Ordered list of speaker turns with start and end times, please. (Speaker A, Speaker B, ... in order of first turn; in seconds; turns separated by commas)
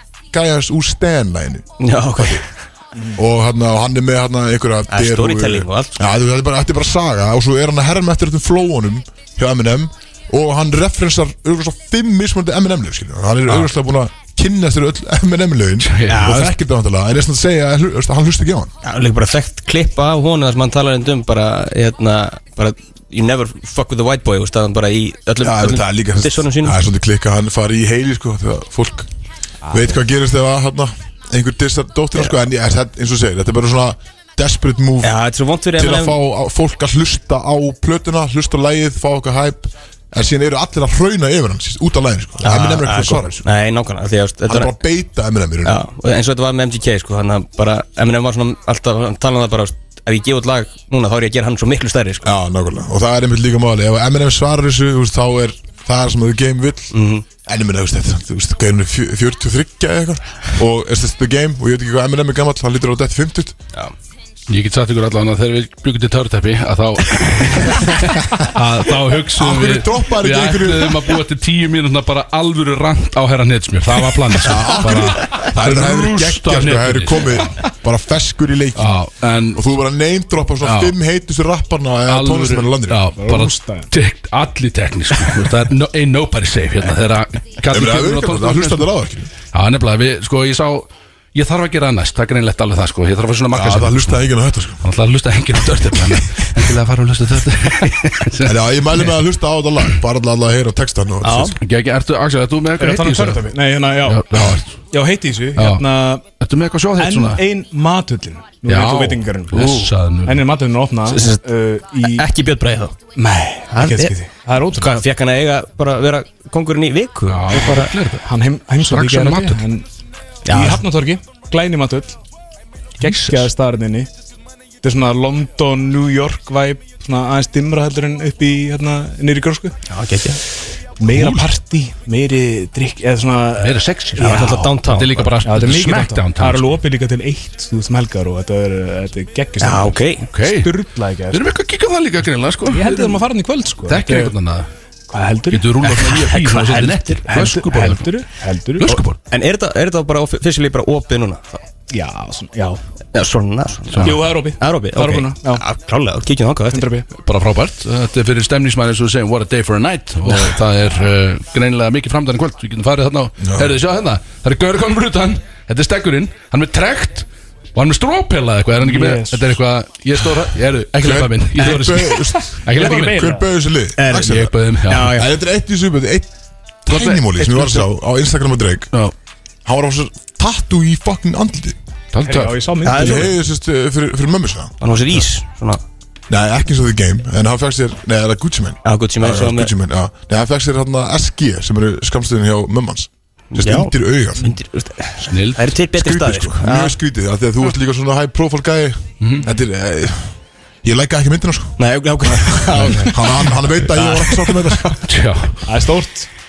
Speaker A: 0.3-1.6, Speaker B: 1.8-2.5, Speaker A: 2.2-2.4, Speaker A: 3.1-18.7, Speaker B: 4.9-6.0, Speaker C: 15.8-16.4, Speaker B: 16.1-16.5, Speaker B: 18.8-26.8, Speaker A: 25.4-29.1, Speaker A: 29.7-35.2, Speaker B: 35.0-36.2, Speaker A: 35.7-43.4, Speaker B: 42.4-44.8, Speaker A: 44.5-45.8, Speaker B: 45.6-52.3, Speaker A: 52.2-63.5, Speaker B: 56.9-57.2, Speaker C: 64.5-77.5, Speaker A: 69.3-71.1, Speaker A: 74.4-83.1, Speaker C: 78.8-79.6, Speaker C: 80.6-81.0, Speaker C: 82.1-88.9, Speaker D: 83.2-83.9, Speaker A: 87.7-89.3, Speaker C: 89.5-94.2, Speaker A: 93.5-94.8, Speaker C: 94.8-99.2, Speaker A: 98.4-101.6, Speaker B: 101.2-101.6, Speaker C: 101.6-103.4, Speaker D: 102.8-104.3, Speaker C: 104.0-104.8, Speaker A: 104.3-104.6, Speaker D: 104.9-106.2, Speaker C: 105.5-107.4, Speaker D: 107.0-112.3, Speaker C: 108.7-110.5, Speaker B: 109.6-109.9, Speaker B: 111.1-111.4, Speaker B: 112.0-112.9, Speaker D: 113.1-114.9, Speaker B: 113.7-114.1, Speaker B: 114.8-117.9, Speaker C: 117.3-118.2, Speaker D: 118.2-119.9, Speaker C: 118.8-119.6, Speaker B: 120.5-120.8, Speaker D: 120.5-122.2, Speaker D: 123.0-124.1, Speaker B: 123.1-123.3, Speaker D: 124.8-129.7, Speaker B: 129.9-130.4, Speaker D: 131.0-134.7, Speaker C: 131.1-131.5, Speaker C: 133.6-136.8, Speaker B: 134.2-135.4, Speaker D: 135.4-141.4, Speaker B: 139.6-140.3, Speaker C: 140.3-140.7, Speaker C: 141.3-143.2, Speaker D: 142.7-144.3, Speaker C: 143.9-144.7, Speaker D: 145.1-145.8, Speaker C: 145.5-148.1, Speaker B: 145.8-147.2, Speaker D: 147.3-148.9, Speaker C: 148.8-149.2, Speaker B: 148.9-151.7, Speaker D: 151.9-152.8, Speaker B: 153.1-156.9, Speaker C: 153.9-154.2, Speaker D: 154.0-155.6, Speaker D: 156.7-157.1, Speaker C: 157.2-173.3, Speaker A: 163.4-163.8, Speaker D: 168.8-169.5, Speaker A: 171.0-176.3, Speaker D: 172.7-173.5, Speaker B: 174.0-175.3, Speaker C: 174.2-175.1, Speaker A: 176.8-178.9, Speaker C: 176.9-177.8, Speaker A: 179.6-181.8, Speaker C: 182.1-182.6, Speaker D: 182.2-183.3, Speaker B: 182.8-183.3, Speaker A: 182.9-184.8, Speaker B: 184.8-185.8, Speaker A: 186.3-194.5, Speaker B: 188.8-189.7, Speaker B: 193.5-196.9, Speaker C: 195.2-195.6, Speaker A: 195.9-204.9, Speaker B: 201.8-205.0, Speaker C: 205.1-205.6, Speaker D: 205.7-206.3